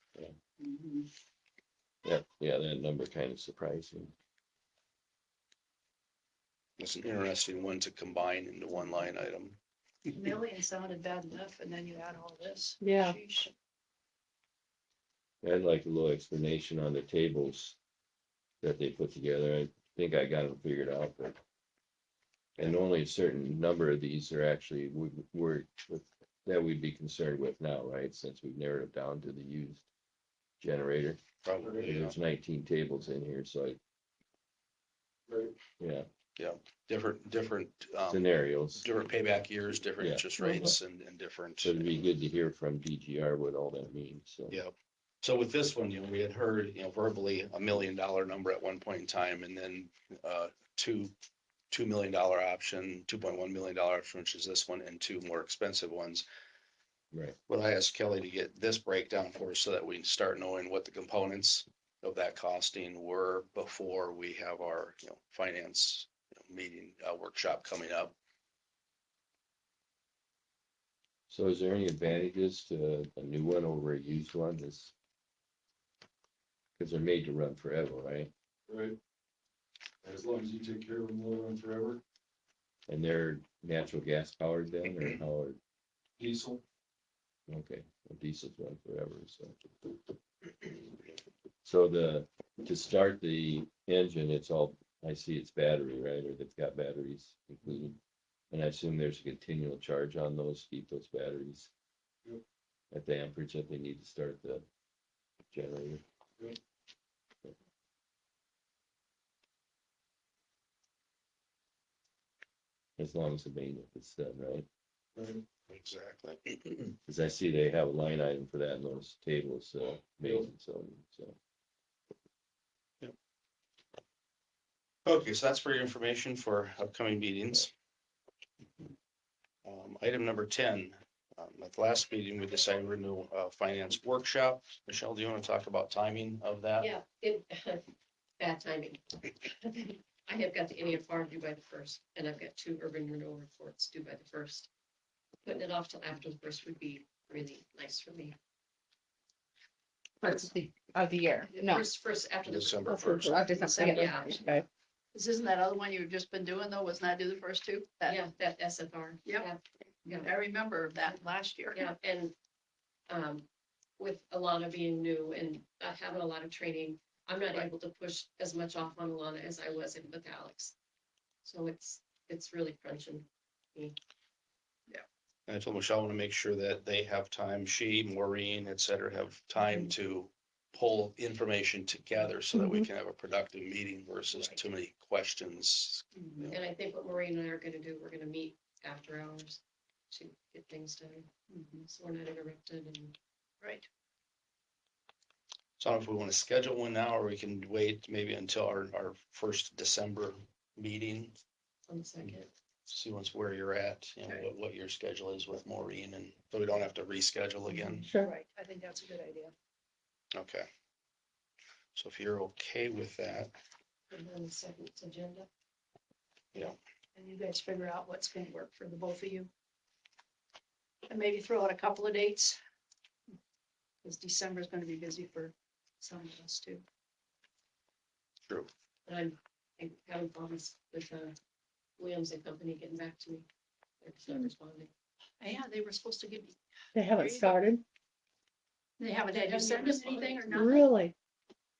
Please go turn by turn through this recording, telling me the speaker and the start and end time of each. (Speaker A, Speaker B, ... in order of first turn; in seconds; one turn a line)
Speaker A: 0.6-1.1
Speaker B: 2.0-4.1
Speaker C: 6.8-9.6
Speaker A: 10.1-13.5
Speaker D: 12.8-13.2
Speaker B: 15.4-17.8
Speaker B: 18.6-21.4
Speaker B: 22.6-29.9
Speaker B: 30.6-31.2
Speaker C: 31.4-32.1
Speaker E: 31.6-31.9
Speaker B: 31.8-33.8
Speaker E: 35.3-35.5
Speaker B: 35.8-36.1
Speaker C: 36.4-42.0
Speaker B: 38.1-38.9
Speaker B: 40.0-40.8
Speaker B: 41.6-44.6
Speaker C: 44.5-51.1
Speaker C: 51.7-56.2
Speaker C: 57.5-68.2
Speaker B: 71.3-74.9
Speaker B: 76.8-78.3
Speaker E: 78.7-79.0
Speaker E: 80.0-82.0
Speaker B: 82.9-85.6
Speaker E: 86.2-86.6
Speaker B: 87.5-89.7
Speaker B: 91.6-98.0
Speaker B: 98.5-101.7
Speaker B: 102.9-104.6
Speaker B: 105.5-106.0
Speaker B: 113.0-114.7
Speaker E: 115.2-115.4
Speaker C: 115.7-117.0
Speaker B: 117.1-121.3
Speaker C: 125.0-127.7
Speaker C: 129.6-136.9
Speaker F: 136.8-144.7
Speaker F: 145.4-148.3
Speaker D: 150.2-151.8
Speaker F: 151.5-153.1
Speaker C: 152.4-153.4
Speaker D: 152.8-154.6
Speaker A: 153.4-154.6
Speaker F: 153.8-154.4
Speaker A: 155.1-158.2
Speaker F: 158.1-160.3
Speaker A: 160.1-161.8
Speaker F: 161.7-162.3
Speaker F: 163.1-163.5
Speaker F: 164.0-170.7
Speaker F: 171.4-173.9
Speaker C: 175.5-186.6
Speaker A: 186.2-186.5
Speaker F: 186.5-191.3
Speaker A: 191.5-191.9
Speaker F: 191.9-193.2
Speaker A: 193.6-193.9
Speaker C: 195.8-201.3
Speaker F: 201.9-202.5
Speaker C: 202.9-208.1
Speaker D: 207.9-208.3
Speaker A: 208.2-209.5
Speaker C: 210.3-210.7
Speaker C: 211.9-213.5
Speaker F: 214.1-215.5
Speaker A: 217.1-219.5
Speaker A: 221.1-222.6
Speaker A: 224.0-226.8
Speaker F: 229.1-231.3
Speaker F: 232.0-233.5
Speaker F: 234.0-234.9
Speaker A: 235.4-236.6
Speaker D: 236.9-237.8
Speaker A: 237.1-237.6
Speaker A: 239.0-240.9
Speaker F: 239.2-240.6
Speaker D: 240.5-241.1